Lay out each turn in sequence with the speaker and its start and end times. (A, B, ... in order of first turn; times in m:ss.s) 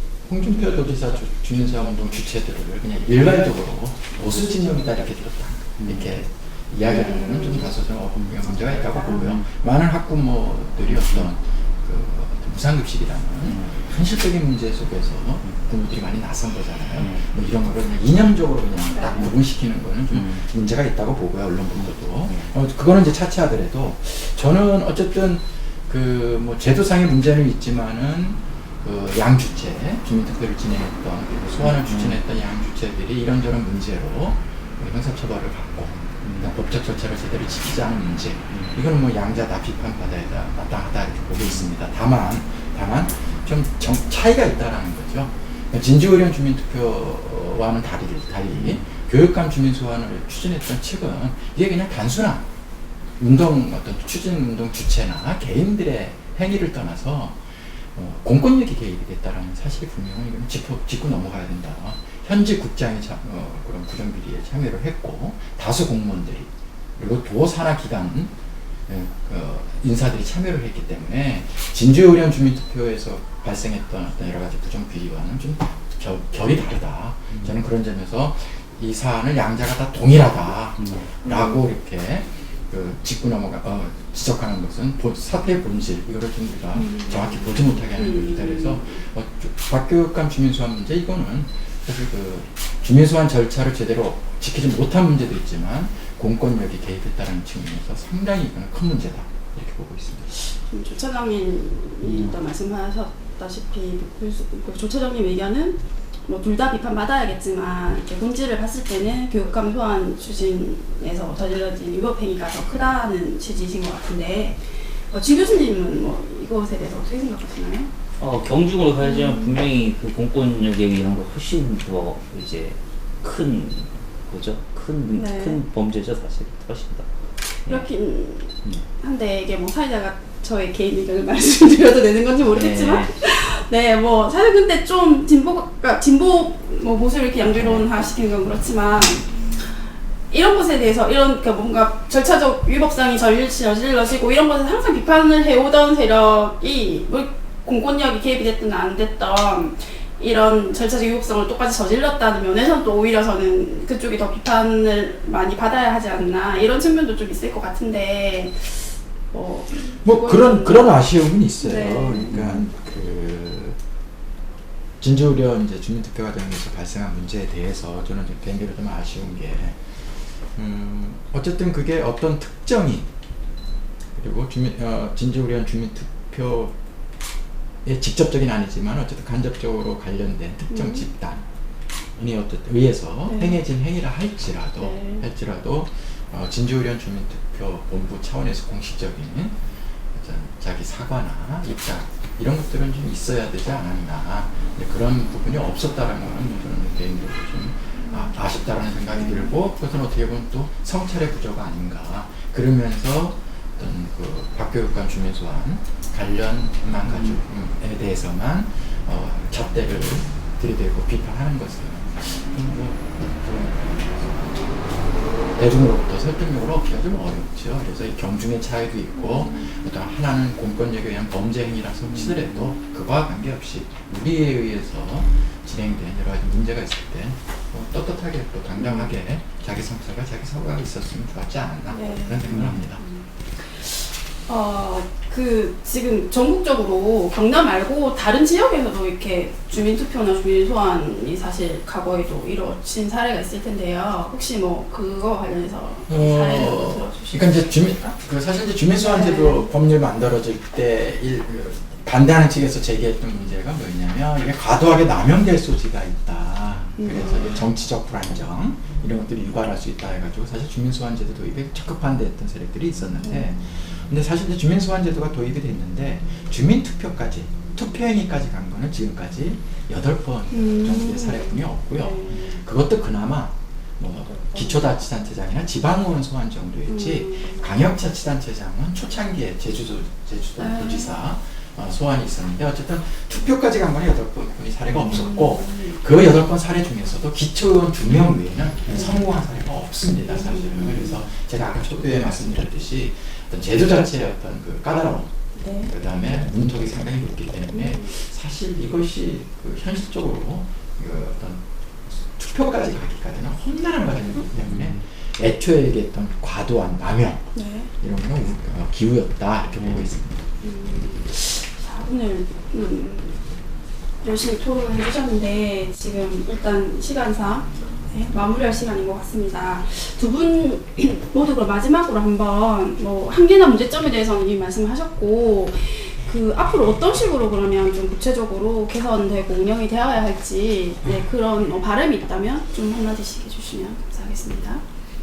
0:00.2-0:52.5 A
0:05.8-0:06.2 B
0:06.9-0:07.7 C
0:08.2-0:09.4 B
0:10.9-0:11.3 B
0:13.4-0:13.8 B
0:17.0-0:17.2 B
0:18.9-0:19.3 C
0:20.1-0:20.4 B
0:21.7-0:22.5 B
0:31.8-0:32.2 B
0:36.2-0:36.5 B
0:41.4-0:41.7 B
0:48.5-0:48.8 B
0:53.2-0:57.4 A
0:57.9-1:08.3 A
1:08.9-1:40.3 A
1:17.3-1:17.6 B
1:20.8-1:21.1 B
1:21.2-1:21.6 C
1:26.7-1:29.0 C
1:40.3-1:57.9 C
1:42.0-1:42.3 B
1:58.2-2:07.1 B
1:59.0-1:59.6 C
2:05.2-2:05.6 C
2:07.7-2:19.4 C
2:12.4-2:13.2 B
2:17.5-2:17.8 B
2:20.3-2:40.9 C
2:40.0-2:43.8 A
2:41.6-2:42.4 C
2:45.0-2:50.0 A
2:50.5-2:53.1 A
2:54.1-2:56.7 A
2:57.8-3:01.4 A
3:00.7-3:01.0 C
3:02.2-3:09.6 A
3:03.3-3:03.6 C
3:04.8-3:05.2 C
3:10.1-3:53.0 A
3:19.1-3:19.5 C
3:27.0-3:27.4 B
3:39.3-3:39.7 C
3:48.8-3:49.1 C
3:51.9-4:07.6 C
3:52.5-3:52.8 B
4:06.1-5:10.4 A
4:09.0-4:09.7 C
4:17.0-4:17.5 C
4:23.2-4:23.5 C
4:30.5-4:32.6 C
4:34.4-4:34.7 C
4:36.9-4:37.6 C
4:40.6-4:41.2 C
4:45.1-4:46.0 C
4:48.9-4:49.2 C
4:50.3-4:50.9 C
4:55.6-4:55.9 C
4:57.7-4:58.1 C
5:04.7-5:05.0 B
5:07.5-5:07.9 C
5:09.8-5:10.1 B
5:10.6-5:13.4 C
5:14.2-5:34.8 C